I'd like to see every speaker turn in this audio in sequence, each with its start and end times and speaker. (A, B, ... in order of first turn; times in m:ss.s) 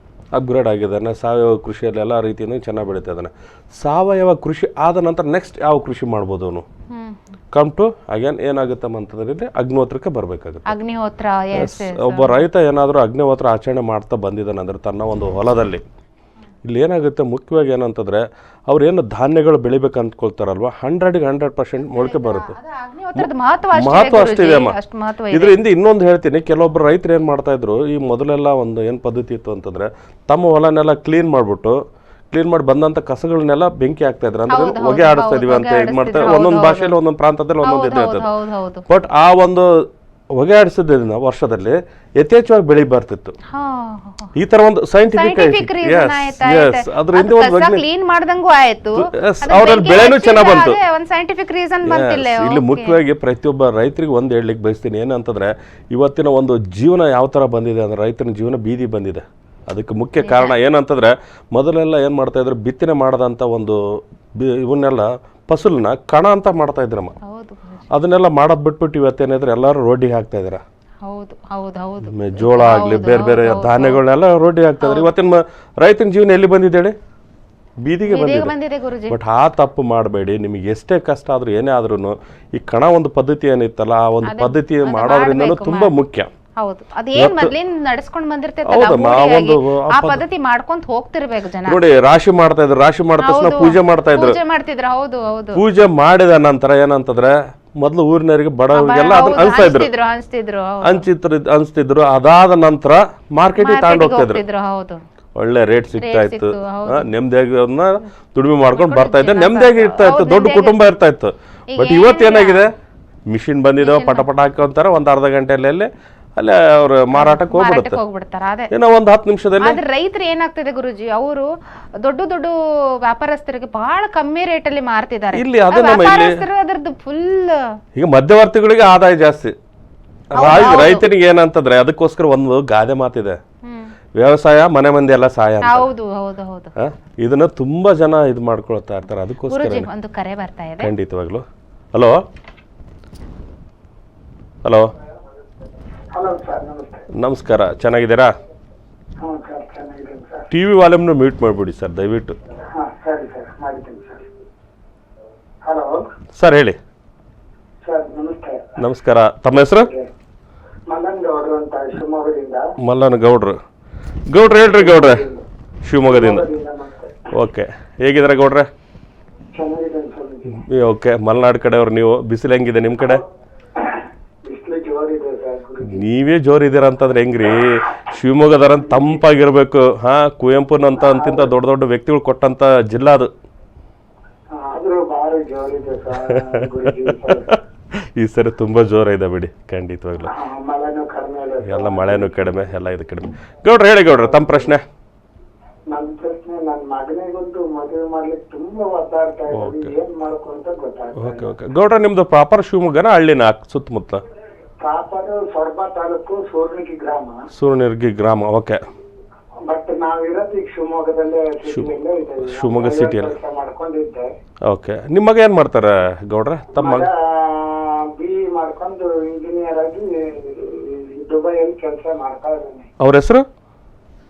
0:00.3-0:06.6 A
0:06.9-0:07.4 B
0:07.5-0:10.7 A
0:10.7-0:12.4 B
0:11.6-0:15.8 A
0:16.6-0:22.6 A
0:21.9-0:25.6 B
0:23.2-0:24.8 A
0:25.3-0:31.8 A
0:32.3-0:38.3 A
0:34.5-0:37.0 B
0:37.6-0:38.8 B
0:38.9-0:43.4 A
0:43.5-0:44.3 B
0:44.4-0:47.8 A
0:45.1-0:53.0 B
0:49.0-0:50.8 A
0:51.8-1:03.8 A
1:00.2-1:00.5 B
1:04.4-1:07.2 A
1:07.2-1:07.8 B
1:07.9-1:10.6 A
1:11.0-1:14.0 B
1:12.0-1:17.0 A
1:14.8-1:15.1 B
1:17.8-1:18.5 A
1:18.1-1:19.2 B
1:19.1-1:26.3 A
1:24.2-1:25.9 B
1:26.6-1:31.8 B
1:27.2-1:27.5 A
1:28.6-1:30.2 A
1:31.6-1:34.4 A
1:33.2-1:35.6 B
1:35.5-1:39.9 A
1:38.8-1:41.0 B
1:40.8-1:44.4 A
1:43.6-1:45.0 B
1:45.4-1:52.7 A
1:46.0-1:47.1 B
1:48.7-1:50.8 B
1:51.7-1:52.6 B
1:53.3-1:58.0 A
1:53.8-1:54.3 B
1:57.2-1:58.7 B
1:58.7-1:59.8 A
1:59.6-2:01.5 B
2:02.0-2:07.6 B
2:05.3-2:06.4 A
2:08.0-2:09.5 A
2:10.3-2:13.4 A
2:10.3-2:11.0 B
2:13.7-2:13.9 B
2:14.2-2:15.9 A
2:15.6-2:16.7 B
2:16.8-2:19.9 A
2:19.5-2:20.9 B
2:20.8-2:22.2 A
2:26.2-2:27.0 C
2:27.2-2:28.3 A
2:29.2-2:30.5 C
2:30.5-2:32.4 A
2:32.8-2:34.3 C
2:35.7-2:36.0 C
2:36.4-2:36.8 A
2:37.9-2:38.8 C
2:38.8-2:39.9 A
2:39.8-2:40.1 C
2:40.9-2:42.6 C
2:42.8-2:43.6 A
2:44.3-2:45.2 A
2:44.6-2:45.4 C
2:45.8-2:46.5 A
2:46.0-2:47.3 C
2:47.3-2:48.7 A
2:49.5-2:50.6 C
2:50.6-2:53.2 A
2:53.8-2:56.0 C
2:55.8-3:03.3 A
3:01.0-3:01.5 C
3:04.6-3:07.6 C
3:06.2-3:07.6 A
3:08.2-3:10.3 A
3:10.3-3:12.5 C
3:11.6-3:14.8 A
3:15.9-3:21.5 C
3:19.5-3:19.9 A
3:21.2-3:24.2 A
3:24.8-3:27.4 C
3:27.5-3:28.8 A
3:29.7-3:34.3 C
3:31.7-3:31.9 A
3:32.4-3:33.4 A
3:34.7-3:37.1 A
3:36.7-3:42.9 C
3:43.0-3:43.4 A